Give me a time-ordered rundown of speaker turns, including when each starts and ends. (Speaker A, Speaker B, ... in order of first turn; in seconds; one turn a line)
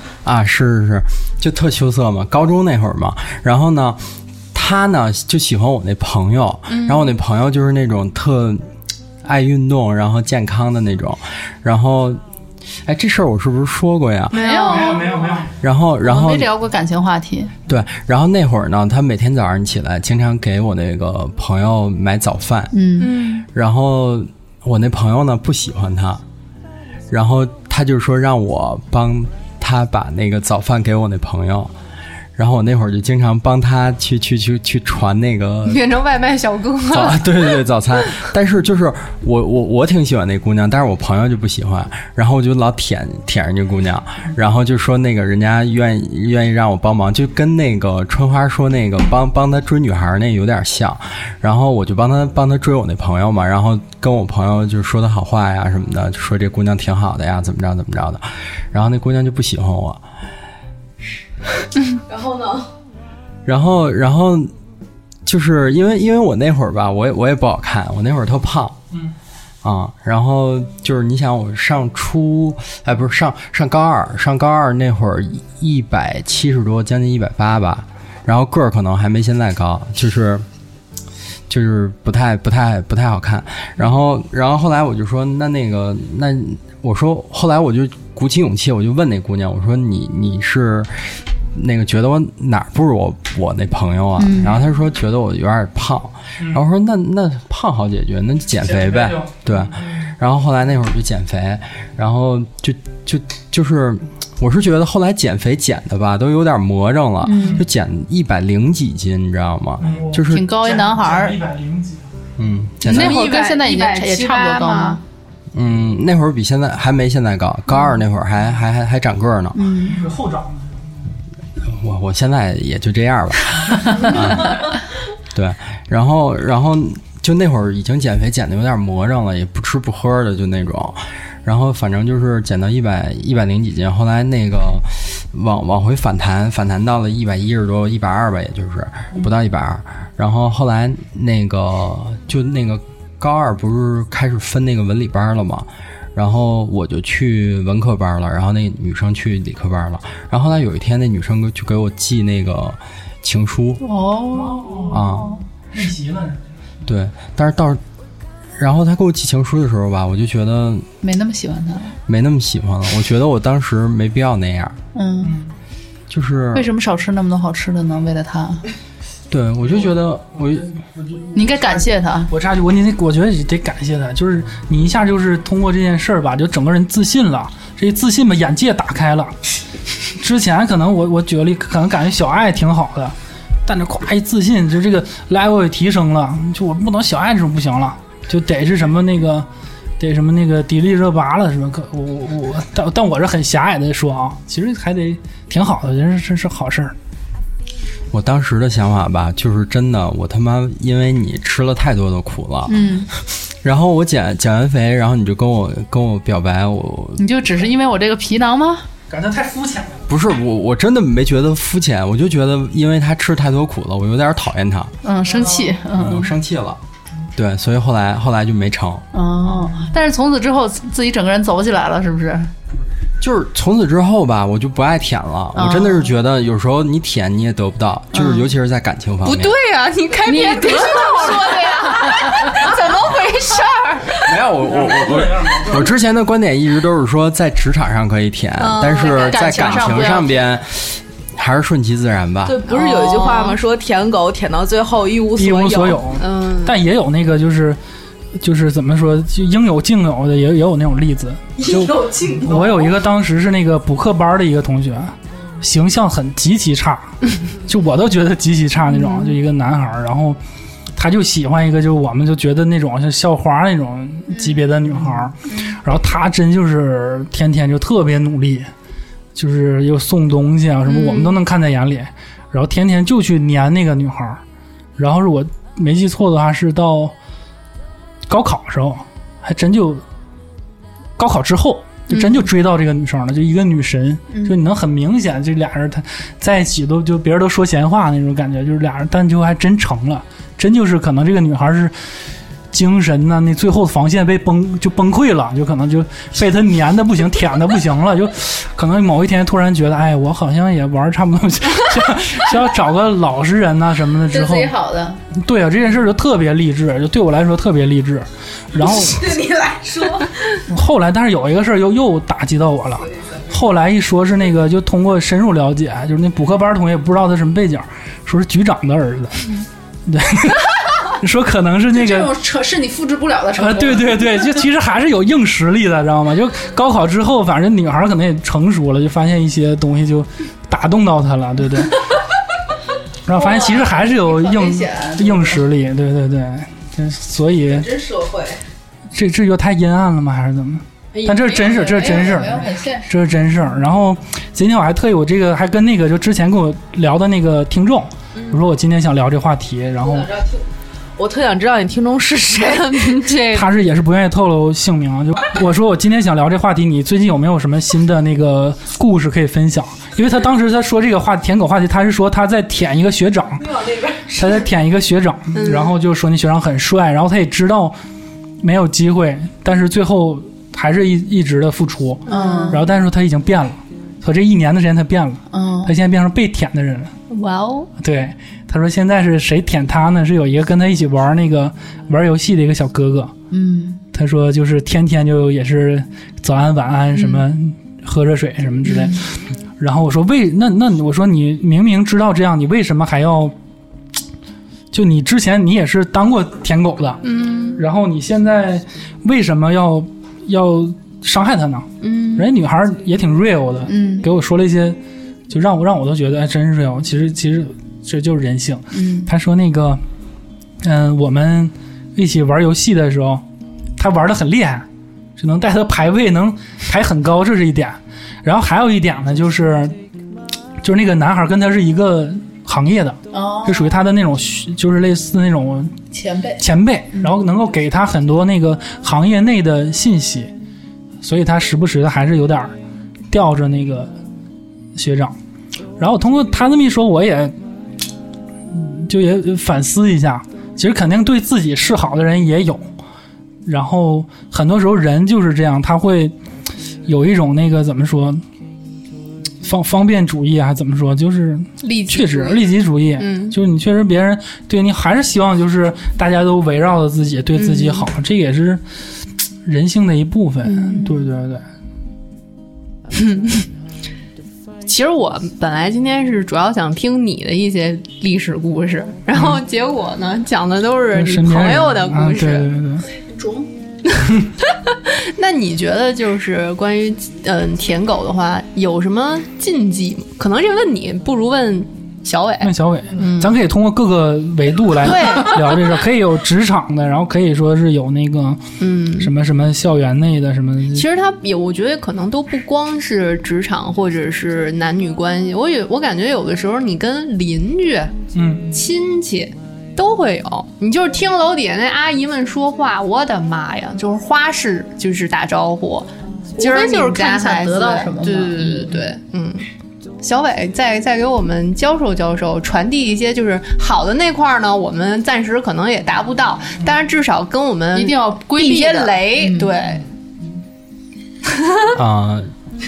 Speaker A: 0.2-8.7
Speaker B: 6.7-7.1
Speaker A: 9.2-12.2
Speaker A: 12.8-14.4
Speaker B: 14.3-15.0
Speaker C: 14.3-15.5
Speaker D: 14.7-15.5
Speaker A: 15.6-16.5
Speaker C: 16.0-17.5
Speaker A: 17.7-22.8
Speaker C: 22.7-23.1
Speaker B: 23.0-23.4
Speaker A: 23.4-26.2
Speaker A: 27.1-31.7
Speaker A: 32.4-35.9
Speaker B: 35.7-37.6
Speaker A: 36.9-60.0
Speaker E: 62.1-62.7
Speaker A: 63.5-64.5
Speaker A: 65.3-68.8
Speaker A: 69.6-80.5
Speaker A: 81.5-90.9
Speaker A: 91.5-110.5
Speaker C: 94.2-94.6
Speaker D: 98.6-99.7
Speaker C: 107.2-107.7
Speaker D: 107.4-107.7
Speaker D: 109.8-112.2
Speaker C: 110.3-111.4
Speaker A: 112.4-113.2
Speaker C: 112.8-115.0
Speaker B: 112.8-115.0
Speaker A: 115.5-119.7
Speaker C: 119.5-120.0
Speaker D: 119.8-120.9
Speaker A: 121.6-124.8
Speaker A: 125.3-153.8
Speaker C: 153.8-155.4
Speaker D: 154.3-155.0
Speaker A: 154.9-155.3
Speaker D: 155.7-156.4
Speaker A: 156.8-157.8
Speaker A: 158.6-160.9
Speaker C: 161.0-162.0
Speaker A: 162.1-164.8
Speaker C: 164.9-165.4
Speaker D: 165.2-165.5
Speaker A: 166.1-166.7
Speaker C: 166.5-168.6
Speaker A: 169.3-170.7
Speaker D: 170.8-179.4
Speaker C: 171.3-172.3
Speaker D: 180.2-189.5
Speaker D: 190.0-197.0
Speaker A: 198.1-202.9
Speaker C: 202.7-203.1
Speaker A: 203.6-207.2
Speaker C: 207.2-208.9
Speaker D: 209.1-210.1
Speaker A: 210.1-215.0
Speaker C: 215.0-216.3
Speaker A: 215.9-216.8
Speaker A: 217.3-219.1
Speaker C: 219.1-222.5
Speaker A: 223.2-229.6
Speaker C: 225.6-226.1
Speaker C: 228.1-228.5
Speaker B: 229.2-234.3
Speaker C: 230.2-232.6
Speaker A: 234.2-242.7
Speaker D: 234.7-235.9
Speaker B: 238.6-240.0
Speaker C: 239.0-240.4
Speaker E: 242.4-246.0
Speaker B: 242.7-243.6
Speaker D: 245.3-247.8
Speaker B: 246.2-246.8
Speaker D: 248.4-260.4
Speaker E: 251.6-252.9
Speaker C: 259.0-259.2
Speaker D: 261.0-268.7
Speaker C: 264.3-264.7
Speaker D: 269.4-274.4
Speaker B: 270.9-271.4
Speaker D: 275.0-277.1
Speaker D: 278.3-280.0
Speaker D: 281.2-291.9
Speaker B: 282.1-282.4
Speaker C: 284.3-284.6
Speaker D: 292.7-304.7
Speaker C: 304.3-305.2
Speaker D: 305.3-309.4
Speaker E: 308.9-310.3
Speaker D: 310.7-319.5
Speaker D: 320.1-322.4
Speaker C: 321.9-324.3
Speaker D: 323.5-332.1
Speaker D: 333.2-337.9
Speaker C: 333.3-335.6
Speaker E: 337.7-338.6
Speaker D: 339.1-350.4
Speaker E: 341.2-341.4
Speaker C: 341.5-343.2
Speaker E: 350.1-350.6
Speaker E: 351.2-353.3
Speaker B: 352.6-353.7
Speaker D: 353.5-363.7
Speaker E: 363.7-364.3
Speaker D: 364.3-368.0
Speaker B: 365.5-365.9
Speaker D: 368.6-377.1
Speaker B: 372.3-372.8
Speaker C: 372.3-372.8
Speaker C: 375.5-375.9
Speaker B: 377.3-377.9
Speaker D: 378.0-383.3
Speaker C: 383.5-384.0
Speaker D: 384.1-393.6
Speaker C: 388.9-389.2
Speaker D: 394.9-397.2
Speaker B: 397.2-397.8
Speaker D: 397.8-410.0
Speaker B: 402.0-402.5
Speaker C: 403.9-404.3
Speaker C: 408.9-409.3
Speaker D: 410.8-413.4
Speaker D: 414.0-420.0
Speaker D: 420.8-426.0
Speaker C: 423.3-423.9
Speaker C: 426.1-426.6
Speaker D: 426.6-430.5
Speaker D: 431.2-432.8
Speaker D: 433.3-434.1
Speaker D: 434.9-435.4
Speaker D: 436.0-437.6
Speaker D: 438.7-442.9
Speaker D: 443.6-446.4
Speaker D: 447.1-448.4
Speaker D: 449.6-458.8
Speaker B: 451.8-452.6
Speaker B: 453.2-453.6
Speaker B: 457.6-458.1
Speaker D: 459.6-461.6
Speaker B: 460.6-461.1
Speaker B: 463.1-463.7
Speaker B: 464.9-472.7
Speaker D: 471.1-473.1
Speaker C: 473.3-473.7
Speaker B: 474.2-483.6
Speaker D: 482.6-488.6
Speaker B: 485.0-485.8
Speaker B: 488.8-489.3
Speaker D: 489.2-491.1
Speaker B: 490.9-498.1
Speaker D: 498.3-498.7
Speaker B: 498.7-509.6
Speaker C: 506.6-509.0
Speaker B: 510.2-520.1
Speaker C: 517.9-519.8
Speaker A: 521.9-522.5